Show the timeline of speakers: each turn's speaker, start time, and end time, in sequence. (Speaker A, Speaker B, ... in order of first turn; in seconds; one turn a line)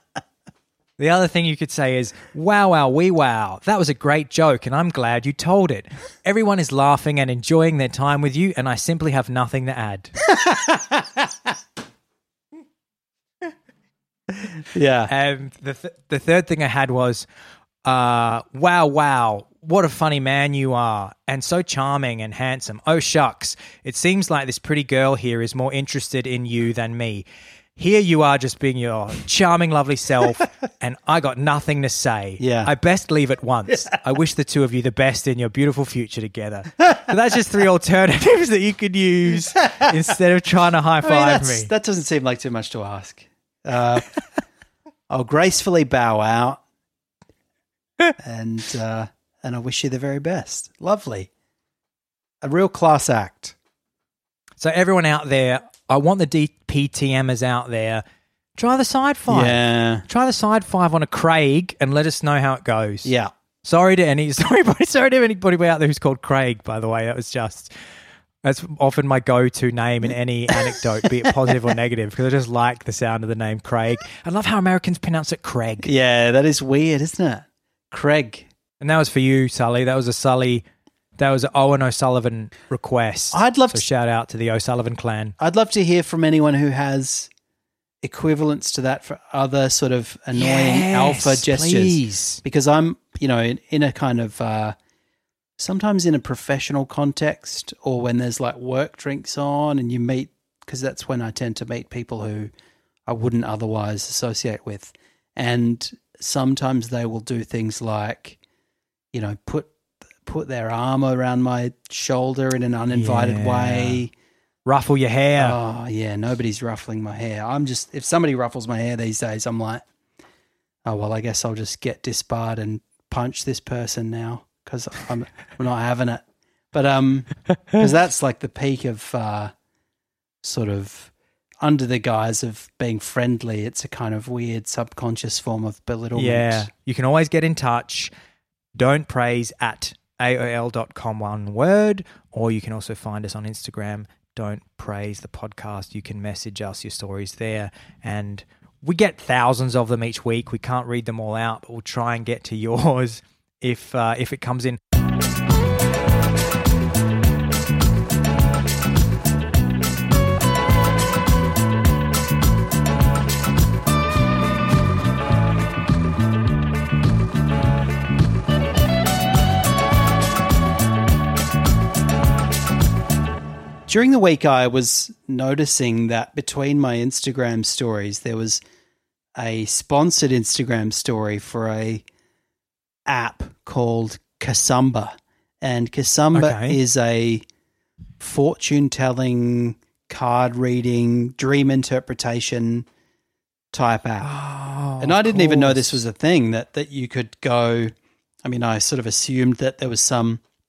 Speaker A: 1.0-10.1
Speaker B: 10.3-11.3
Speaker B: 14.7-15.1
Speaker A: 15.1-17.2
Speaker A: 17.8-27.2
Speaker A: 27.8-41.7
Speaker B: 32.4-32.7
Speaker B: 41.0-44.1
Speaker B: 45.1-46.6
Speaker B: 48.2-51.3
Speaker B: 52.4-53.6
Speaker A: 54.6-58.0
Speaker A: 58.6-63.1
Speaker B: 59.3-60.1
Speaker B: 63.0-63.3
Speaker A: 63.6-67.7
Speaker A: 68.4-75.9
Speaker B: 75.8-78.5
Speaker A: 78.8-80.6
Speaker A: 81.2-85.4
Speaker B: 83.3-83.8
Speaker B: 85.4-87.3
Speaker B: 88.0-94.8
Speaker A: 90.3-92.4
Speaker B: 95.6-102.5
Speaker B: 103.1-108.4
Speaker B: 109.1-109.7
Speaker B: 110.2-114.1
Speaker A: 112.9-114.0
Speaker A: 114.7-115.6
Speaker B: 115.4-119.8
Speaker B: 120.8-126.2
Speaker B: 126.7-129.5
Speaker B: 130.4-136.7
Speaker A: 136.2-138.1
Speaker A: 138.8-154.8
Speaker B: 173.9-178.6
Speaker B: 179.4-182.0
Speaker B: 183.1-187.4
Speaker A: 186.3-186.8
Speaker B: 188.2-192.9
Speaker B: 193.7-194.3
Speaker A: 194.2-196.0
Speaker B: 195.0-200.4